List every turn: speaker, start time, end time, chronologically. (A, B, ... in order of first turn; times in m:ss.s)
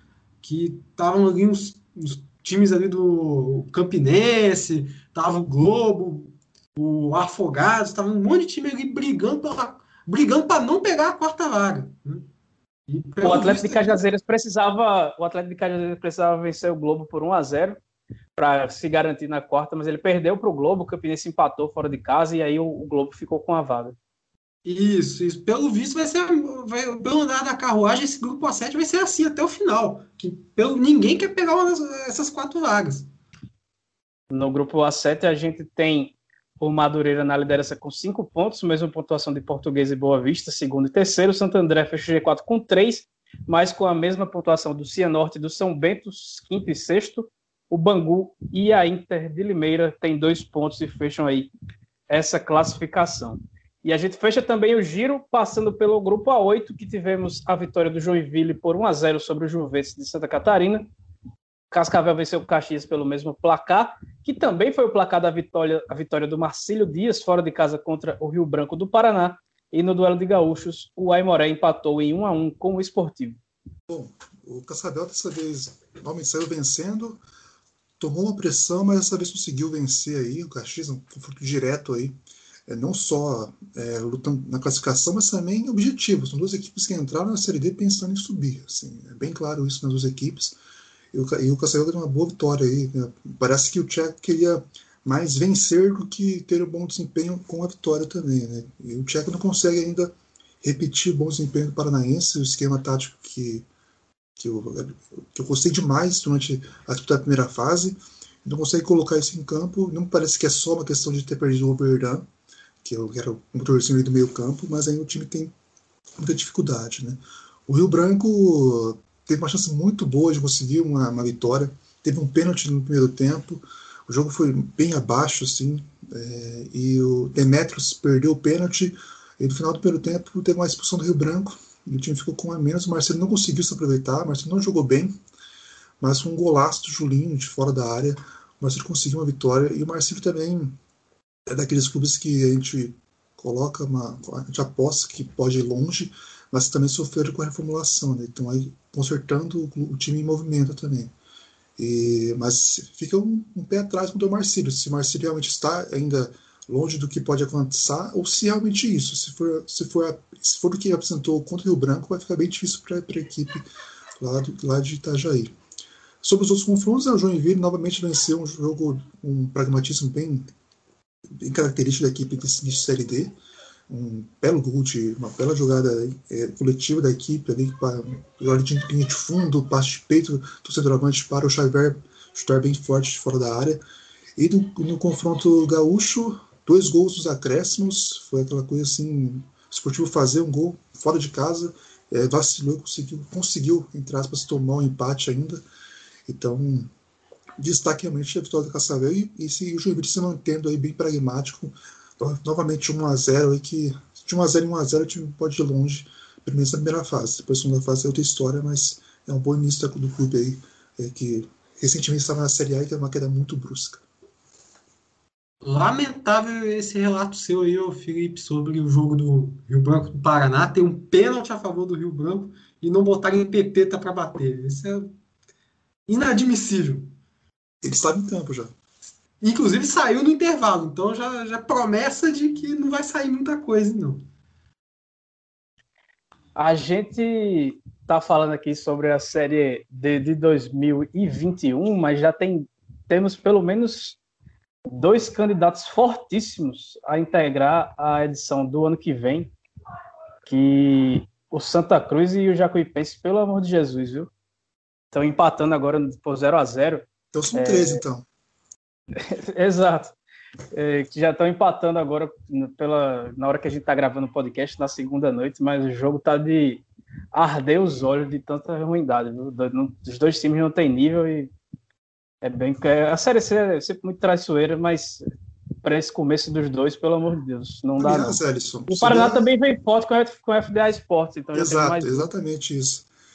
0:00.4-0:12.3 A
0:12.9-0:14.0 A
0:13.2-0:17.8 B
0:18.4-0:24.0 B
0:24.6-0:33.1 A
0:34.3-0:51.5 B
0:52.1-1:00.9 B
1:01.7-1:13.4 B
1:13.9-1:17.2 C
1:18.0-1:30.6 C
1:31.1-1:43.7 C
1:44.4-1:52.3 C
1:52.8-1:55.5 C
1:56.2-2:15.2 C
2:16.0-2:20.8 C
2:21.5-2:31.1 C
2:31.8-2:43.7 C
2:44.2-2:45.5 C
2:46.2-2:50.5 C
2:51.4-2:53.4 C
2:53.9-3:03.8 C
3:04.4-3:15.6 C
3:16.3-3:16.9 C
3:17.6-3:34.0 C
3:35.6-3:45.1 A
3:46.1-3:47.1 A
3:47.8-3:48.7 C
3:49.4-3:54.2 A
3:56.6-4:04.2 B
4:04.9-4:09.5 B
4:10.4-4:14.3 B
4:15.1-4:18.0 B
4:17.3-4:18.3 C
4:19.2-4:20.2 B
4:20.7-4:31.5 B
4:32.4-4:35.2 B
4:35.8-4:42.3 B
4:38.0-4:39.5 C
4:41.5-4:43.1 C